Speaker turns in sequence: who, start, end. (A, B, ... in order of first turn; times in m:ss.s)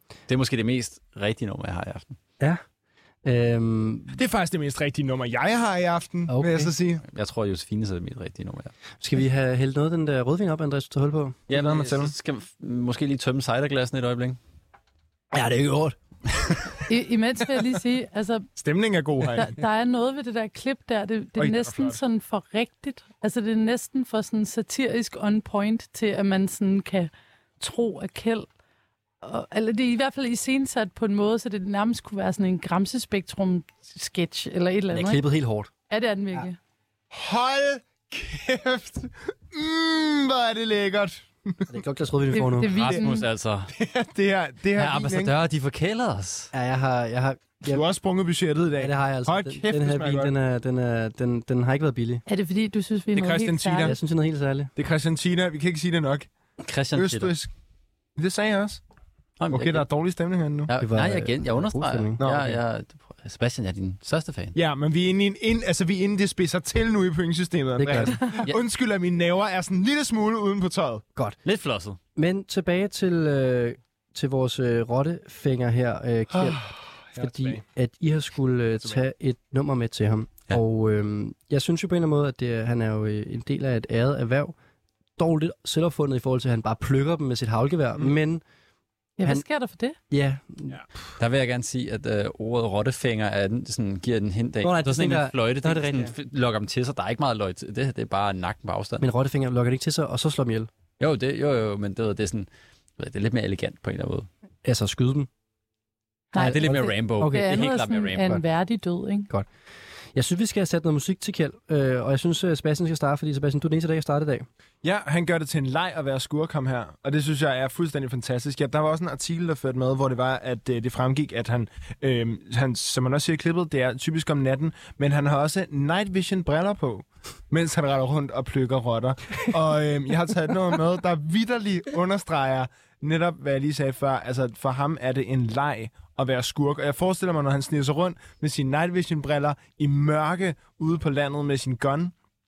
0:00.3-0:02.2 A
0:03.2-0:04.2 B
0:04.2-0:07.0 C
0:06.3-0:06.7 B
0:07.0-0:08.7 A
0:09.0-0:11.4 B
0:11.5-0:14.4 A
0:11.5-0:12.1 C
0:15.3-0:16.0 B
0:16.9-0:18.5 D
0:18.6-0:19.6 C
0:19.4-0:28.5 D
0:21.4-0:22.0 C
0:29.2-0:35.2 D
0:34.9-0:35.7 B
0:35.9-0:36.6 D
0:37.1-0:41.7 C
0:41.7-0:42.7 B
0:42.3-0:43.3 D
0:42.7-0:43.7 A
0:43.7-0:45.3 C
0:44.8-0:46.5 A
0:46.5-0:47.8 B
0:47.6-0:50.3 C
0:48.8-0:52.2 B
0:52.3-0:53.9 D
0:53.1-0:54.0 C
0:53.8-0:54.7 B
0:54.8-0:56.3 C
0:56.6-0:57.3 A
0:56.9-0:57.5 C
0:58.2-0:58.8 C
0:59.4-0:59.9 A
0:59.5-1:00.7 C
1:00.7-1:04.6 A
1:00.8-1:02.2 B
1:02.2-1:02.6 C
1:04.6-1:11.0 C
1:07.8-1:08.3 B
1:11.4-1:12.0 A
1:12.2-1:24.6 B
1:16.3-1:17.6 C
1:25.2-1:28.4 B
1:29.2-1:30.0 D
1:30.1-1:30.8 B
1:31.2-1:39.1 A
1:34.6-1:36.1 B
1:39.0-1:40.7 B
1:41.0-1:44.3 A
1:44.6-1:45.3 B
1:46.3-1:49.3 D
1:46.4-1:47.7 B
1:46.4-1:48.4 A
1:50.2-1:54.5 B
1:54.8-2:22.1 C